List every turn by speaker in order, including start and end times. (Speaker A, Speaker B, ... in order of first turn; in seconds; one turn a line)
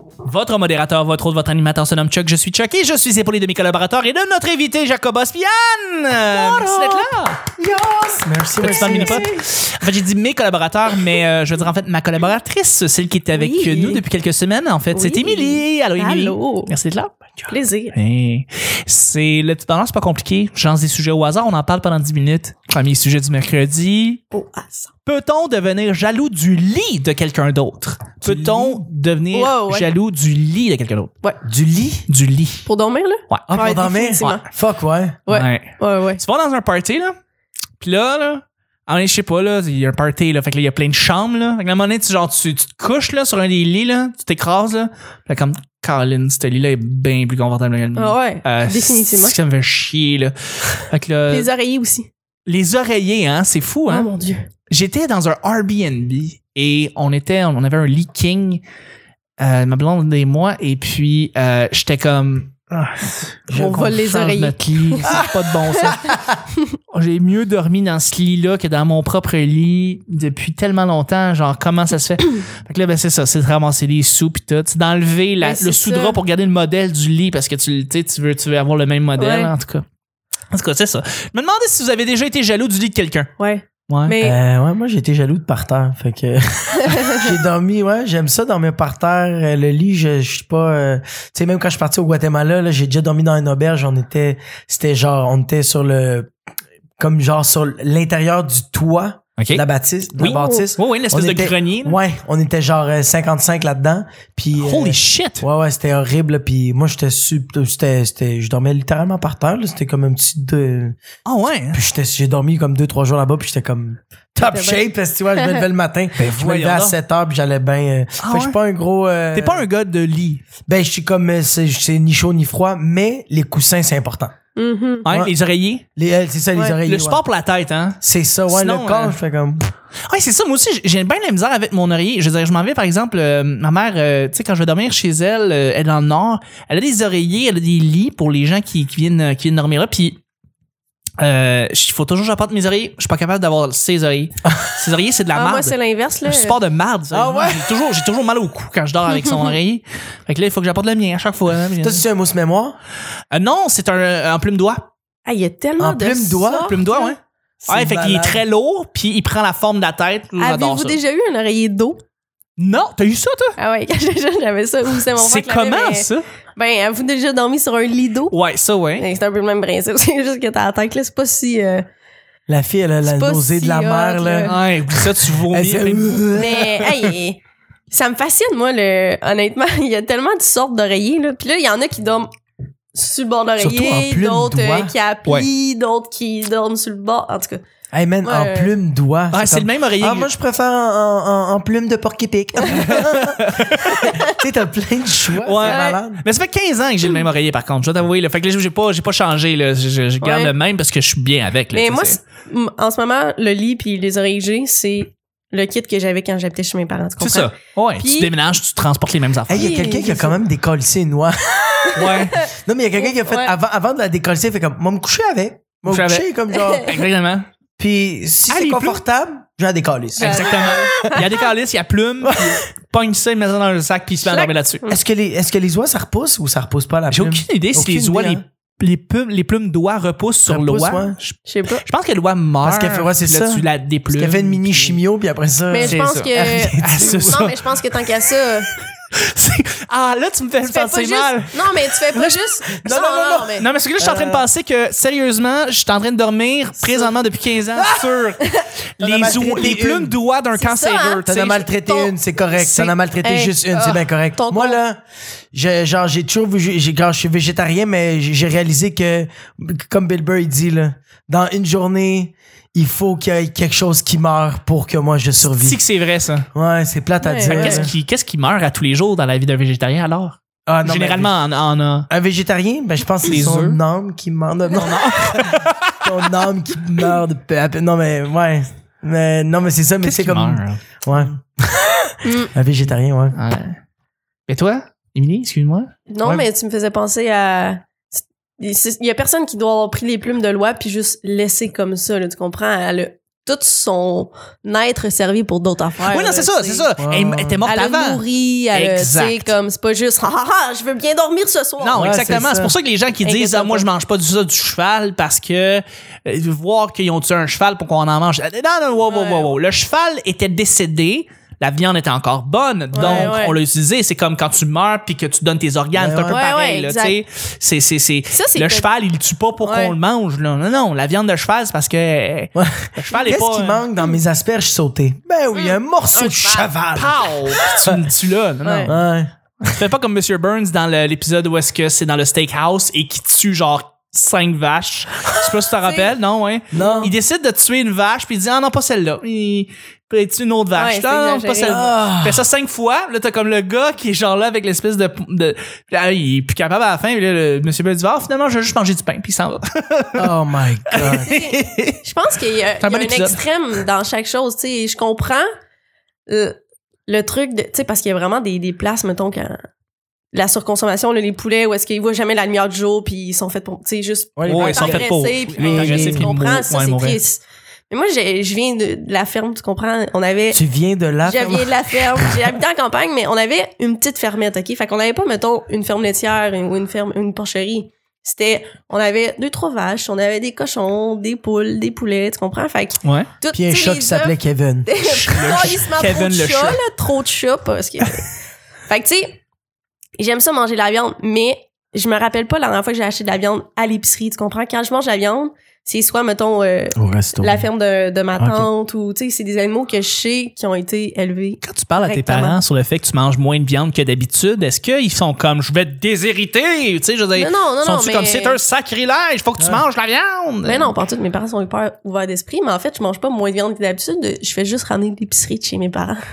Speaker A: 0.2-7.4
Speaker B: 6.3-9.3
Speaker A: 8.6-24.2
Speaker C: 8.6-9.4
Speaker C: 13.3-14.0
Speaker C: 14.9-16.7
Speaker C: 17.5-17.9
Speaker C: 24.3-24.9
Speaker A: 25.1-31.1
Speaker B: 28.2-28.9
Speaker C: 29.3-29.9
Speaker B: 31.4-32.1
Speaker A: 32.1-32.7
Speaker C: 32.6-34.5
Speaker A: 33.3-33.6
Speaker B: 33.5-35.2
Speaker C: 35.3-36.2
Speaker A: 35.3-37.2
Speaker A: 37.8-51.5
Speaker C: 48.0-49.4
Speaker C: 51.3-52.1
Speaker A: 52.5-54.1
Speaker C: 53.9-54.5
Speaker A: 54.7-58.6
Speaker A: 59.4-66.2
Speaker B: 63.5-64.4
Speaker C: 63.5-65.2
Speaker B: 65.0-66.2
Speaker A: 66.9-79.8
Speaker C: 75.4-76.2
Speaker C: 79.2-79.5
Speaker A: 80.5-83.3
Speaker C: 83.4-84.4
Speaker A: 83.9-84.2
Speaker B: 84.2-96.3
Speaker B: 97.0-111.0
Speaker A: 99.4-99.6
Speaker A: 100.2-102.0
Speaker C: 100.3-100.7
Speaker A: 104.6-105.5
Speaker A: 111.3-111.8
Speaker B: 111.7-119.7
Speaker C: 114.4-115.7
Speaker A: 116.2-117.0
Speaker A: 118.2-118.6
Speaker A: 119.3-120.5
Speaker B: 120.7-124.3
Speaker C: 124.6-125.1
Speaker A: 125.0-125.8
Speaker B: 125.1-125.3
Speaker B: 126.0-127.2
Speaker A: 126.8-129.2
Speaker B: 128.0-129.6
Speaker A: 130.1-140.2
Speaker A: 141.2-152.0
Speaker C: 145.3-146.6
Speaker B: 147.1-147.7
Speaker C: 149.2-149.5
Speaker B: 151.8-152.8
Speaker A: 153.3-154.9
Speaker C: 155.2-157.2
Speaker B: 155.8-156.7
Speaker A: 156.7-161.0
Speaker B: 157.7-158.4
Speaker C: 160.4-162.0
Speaker A: 162.6-163.6
Speaker C: 163.6-168.4
Speaker A: 165.1-166.2
Speaker A: 168.3-169.1
Speaker C: 169.0-171.9
Speaker B: 172.5-174.6
Speaker C: 173.0-174.6
Speaker A: 174.4-176.5
Speaker B: 175.5-177.0
Speaker C: 176.3-182.3
Speaker C: 182.9-187.6
Speaker B: 183.6-184.9
Speaker B: 187.9-196.2
Speaker C: 188.2-188.8
Speaker A: 189.3-190.3
Speaker A: 192.8-194.0
Speaker C: 193.9-194.3
Speaker A: 195.4-202.2
Speaker C: 195.6-196.0
Speaker C: 200.2-200.5
Speaker C: 201.7-208.3
Speaker A: 207.2-209.7
Speaker B: 209.5-216.9
Speaker C: 209.5-210.4
Speaker C: 211.8-213.5
Speaker A: 211.9-212.4
Speaker A: 215.9-217.5
Speaker C: 216.5-216.9
Speaker B: 217.8-221.3
Speaker A: 218.5-219.0
Speaker A: 220.2-224.8
Speaker C: 220.2-221.3
Speaker B: 222.2-222.6
Speaker C: 224.2-225.0
Speaker B: 224.9-228.4
Speaker A: 227.1-235.0
Speaker B: 230.5-231.2
Speaker C: 231.5-231.8
Speaker B: 232.6-237.4
Speaker C: 235.7-238.7
Speaker A: 235.8-237.8
Speaker A: 239.1-242.3
Speaker C: 240.7-243.7
Speaker B: 242.8-244.5
Speaker A: 243.6-248.5
Speaker C: 246.8-247.2
Speaker B: 247.8-248.1
Speaker C: 248.4-248.7
Speaker A: 249.0-251.7
Speaker B: 249.0-250.2
Speaker C: 250.6-252.2
Speaker B: 251.3-255.0
Speaker A: 252.6-253.0
Speaker C: 253.2-254.8
Speaker B: 255.5-265.8
Speaker A: 265.5-266.5
Speaker B: 266.5-267.9
Speaker C: 267.2-267.9
Speaker A: 267.4-272.1
Speaker B: 270.7-271.4
Speaker B: 272.1-283.4
Speaker A: 273.2-273.8
Speaker A: 274.7-276.1
Speaker A: 280.0-281.3
Speaker C: 282.2-282.5
Speaker A: 283.4-283.8
Speaker A: 284.5-285.9
Speaker C: 286.1-296.9
Speaker A: 296.0-299.5
Speaker B: 297.0-297.6
Speaker C: 297.6-302.3
Speaker A: 301.8-323.9
Speaker B: 301.9-302.8
Speaker C: 303.2-303.9
Speaker C: 309.1-309.5
Speaker C: 312.9-313.6
Speaker B: 313.0-313.4
Speaker B: 315.9-316.4
Speaker C: 316.3-317.2
Speaker C: 318.3-318.9
Speaker C: 319.6-319.9
Speaker B: 322.6-328.0
Speaker C: 325.5-326.7
Speaker A: 326.9-329.0
Speaker C: 328.6-328.9
Speaker B: 328.9-329.3
Speaker A: 329.6-350.3
Speaker C: 335.7-336.1
Speaker B: 336.7-337.1
Speaker C: 336.7-337.1
Speaker C: 340.8-341.9
Speaker B: 341.7-342.5
Speaker B: 350.2-351.4
Speaker A: 350.9-352.0
Speaker C: 351.1-351.5
Speaker C: 352.0-355.5
Speaker A: 352.8-353.4
Speaker C: 356.3-359.6
Speaker C: 360.3-370.6
Speaker B: 364.4-366.3
Speaker A: 364.5-367.2
Speaker B: 370.5-372.5
Speaker C: 371.2-388.3
Speaker A: 383.0-383.3
Speaker B: 383.5-384.9
Speaker A: 385.0-386.8
Speaker C: 388.9-389.4
Speaker C: 390.2-402.6
Speaker B: 397.0-397.6
Speaker B: 398.4-398.7
Speaker A: 401.6-410.9
Speaker C: 407.4-408.6
Speaker B: 409.6-409.8
Speaker C: 410.6-416.2